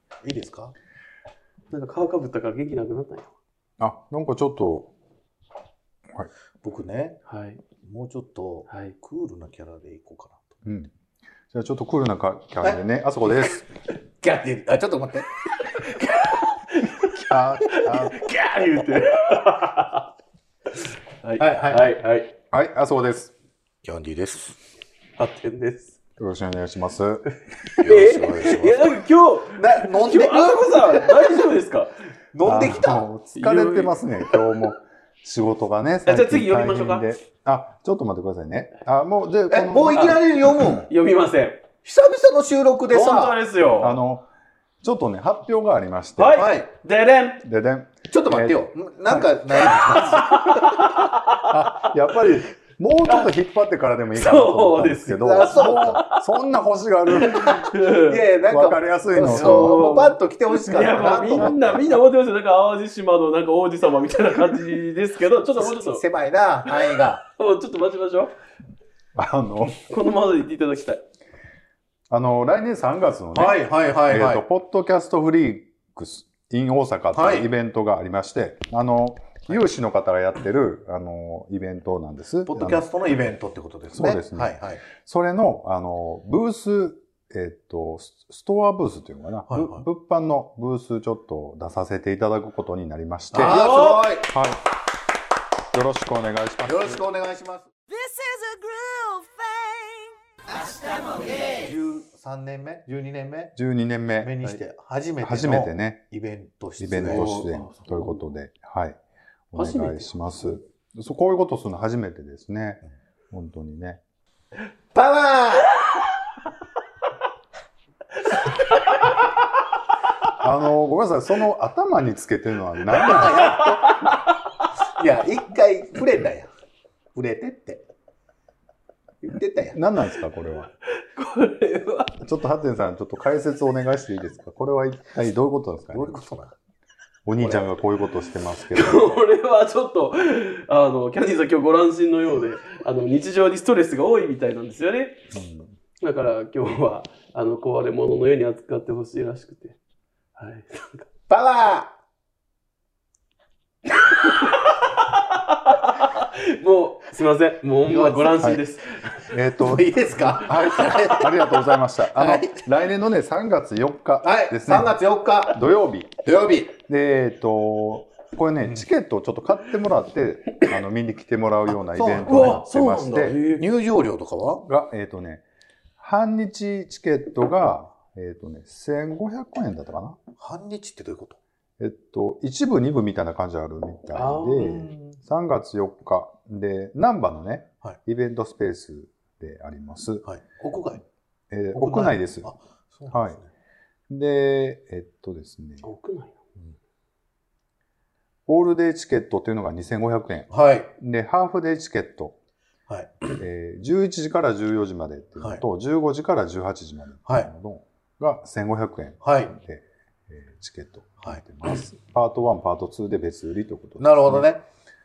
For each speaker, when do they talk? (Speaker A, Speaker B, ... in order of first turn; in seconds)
Speaker A: 0.2-0.7, 6.6-7.2, 7.8-10.6, 14.2-16.0, 21.4-21.9, 23.8-24.6, 27.8-31.5, 32.3-33.1, 39.5-40.9, 41.8-43.4, 46.3-46.7, 48.1-50.7, 55.2-56.0, 58.0-61.8, 65.6-67.2, 73.3-74.4, 77.1-77.5, 82.5-84.8, 89.5-89.8, 93.3-94.3, 96.6-97.7, 101.4-103.5, 104.2-107.4, 114.9-115.8, 122.8-124.0, 124.9-126.5, 127.1-127.8, 129.2-129.8, 135.9-136.5, 137.3-137.7, 151.3-151.9, 157.9-158.5, 159.6-162.7, 164.2-165.6, 166.2-166.8, 171.7-172.6, 173.6-174.6, 180.4-181.4, 184.6-185.2, 190.2-191.0, 191.7-193.5, 200.5-200.9, 202.9-203.2, 209.2-209.5, 214.0-214.6
Speaker B: 1.7-3.3, 7.2-7.6, 8.7-8.9, 15.9-20.1, 20.8-22.3, 25.2-26.0, 27.6-32.0, 33.3-34.5, 36.0-37.1, 39.9-40.2, 40.8-41.6, 42.9-44.0, 46.2-47.4, 49.6-52.3, 54.1-56.2, 57.1-58.2, 59.2-66.0, 66.6-68.3, 69.9-71.0, 93.4-94.1, 107.0-108.2, 109.5-110.2, 123.7-124.1, 130.8-132.2, 138.7-145.2, 146.0-149.8, 150.3-151.1, 154.1-159.2, 172.3-173.6, 184.1-184.7, 195.8-196.4
Speaker C: 3.8-4.9, 10.6-10.9, 11.5-13.6, 17.1-18.2, 22.5-23.3, 26.2-27.2, 32.4-40.9, 43.8-44.3, 44.8-46.4, 47.4-49.8, 51.4-57.7, 58.5-59.8, 61.4-61.8, 69.1-69.9, 72.1-82.8, 83.9-94.6, 95.7-97.0, 103.5-104.3, 105.2-106.0, 106.8-109.0, 109.5-114.0, 120.4-123.6, 129.7-130.7, 132.2-136.2, 137.2-139.2, 145.3-145.7, 159.2-165.0, 165.5-166.2, 166.8-173.4, 174.6-175.4, 176.0-180.2, 181.8-190.2, 191.5-192.5, 193.1-193.4, 194.1-195.8, 198.5-202.3, 203.4-214.5
Speaker D: 97.9-100.2, 100.7-101.2